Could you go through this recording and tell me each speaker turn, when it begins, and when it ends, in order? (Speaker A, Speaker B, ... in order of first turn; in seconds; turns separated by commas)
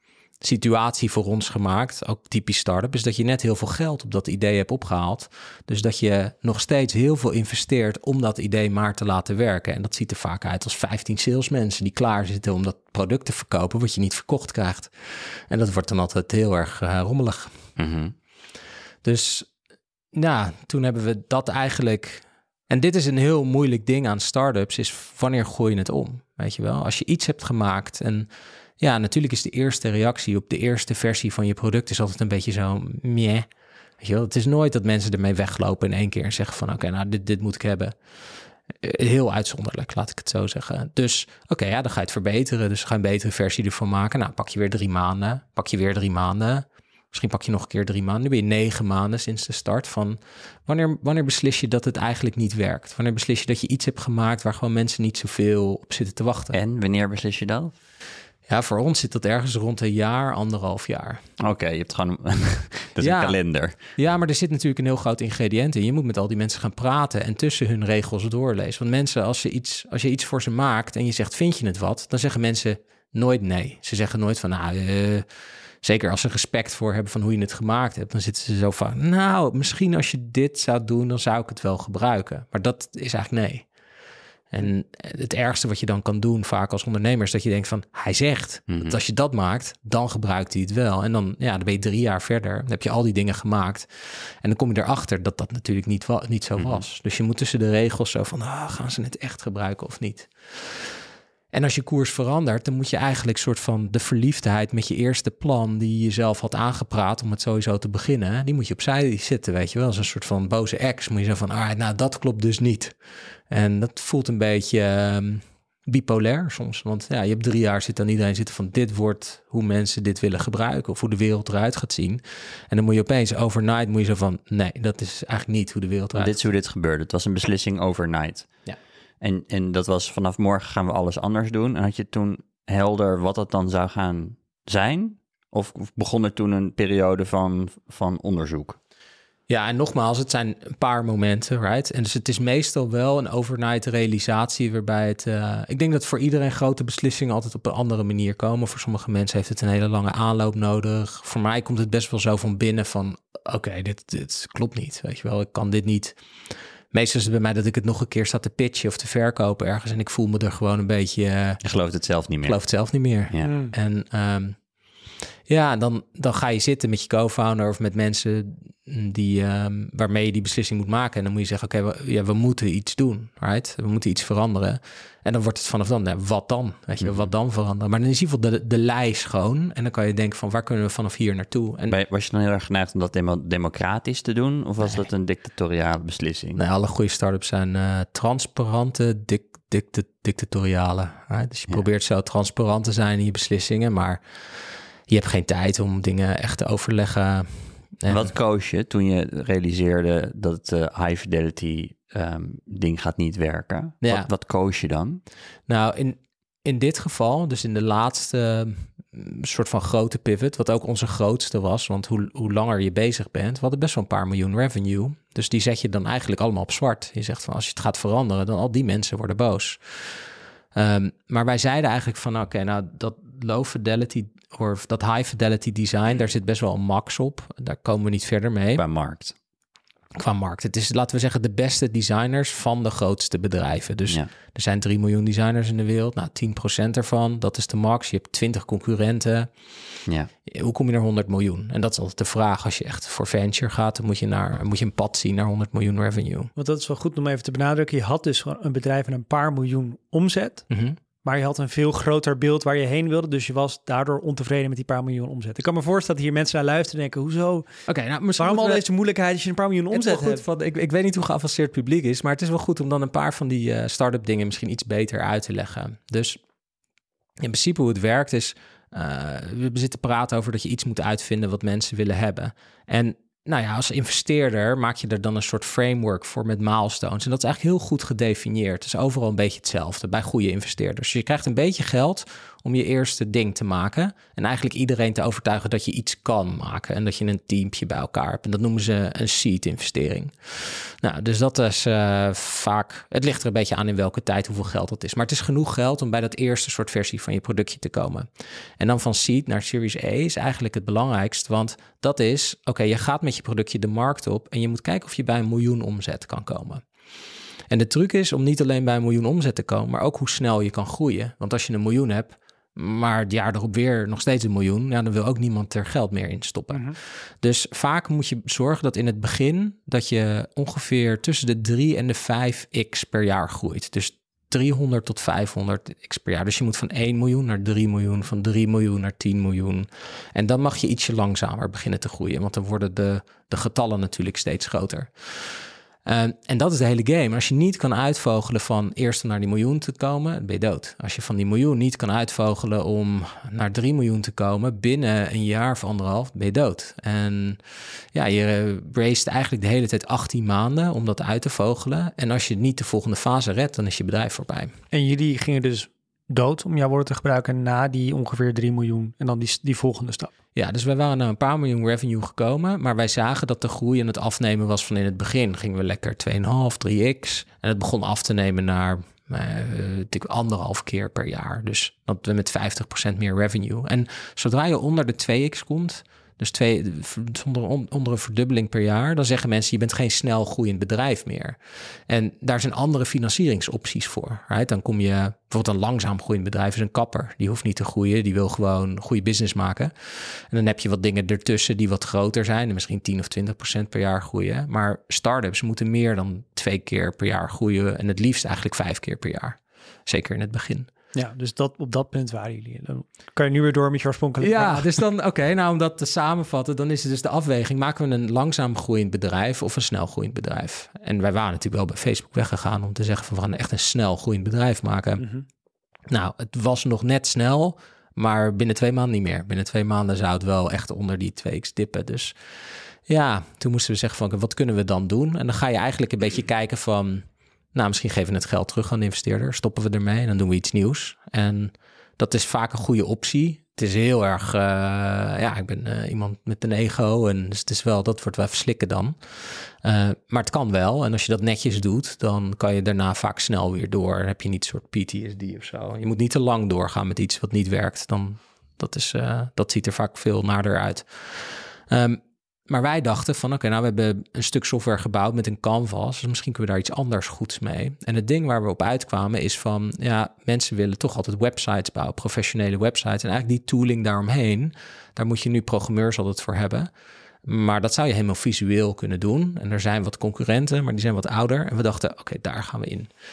Speaker A: 0.4-17.6, Speaker B: 17.8-18.1, Speaker A: 19.0-19.5, Speaker A: 20.1-28.3, Speaker A: 28.8-33.5, Speaker A: 34.0-38.0, Speaker A: 38.8-56.6, Speaker B: 56.5-57.7, Speaker A: 58.5-61.2, Speaker B: 61.4-63.8, Speaker A: 63.0-63.4, Speaker A: 63.9-75.3, Speaker A: 75.8-83.7, Speaker A: 84.5-113.0, Speaker B: 88.7-89.0, Speaker B: 96.6-96.8, Speaker A: 113.5-126.3, Speaker B: 126.2-128.5, Speaker B: 129.2-138.8, Speaker A: 139.5-156.2, Speaker A: 156.9-161.6, Speaker B: 161.6-162.6, Speaker A: 162.4-164.6, Speaker C: 163.4-163.7, Speaker A: 165.5-182.0, Speaker B: 177.0-177.3, Speaker B: 181.9-186.6, Speaker A: 186.6-194.2, Speaker A: 195.1-198.3, Speaker B: 198.1-205.2, Speaker A: 204.0-204.3, Speaker A: 205.7-228.8, Speaker B: 228.8-229.3, Speaker A: 230.2-239.6, Speaker A: 240.5-246.5, Speaker C: 246.6-250.7, Speaker A: 250.7-251.0, Speaker C: 251.2-257.7, Speaker A: 257.9-258.8, Speaker C: 258.4-260.4, Speaker A: 259.9-266.4, Speaker A: 267.4-306.8, Speaker A: 307.7-347.6, Speaker A: 348.1-354.7, Speaker C: 354.9-360.3, Speaker A: 360.6-400.9, Speaker C: 401.1-405.0, Speaker A: 404.4-415.2, Speaker C: 415.2-415.5, Speaker A: 416.1-422.4, Speaker A: 423.1-466.9, Speaker A: 467.4-473.1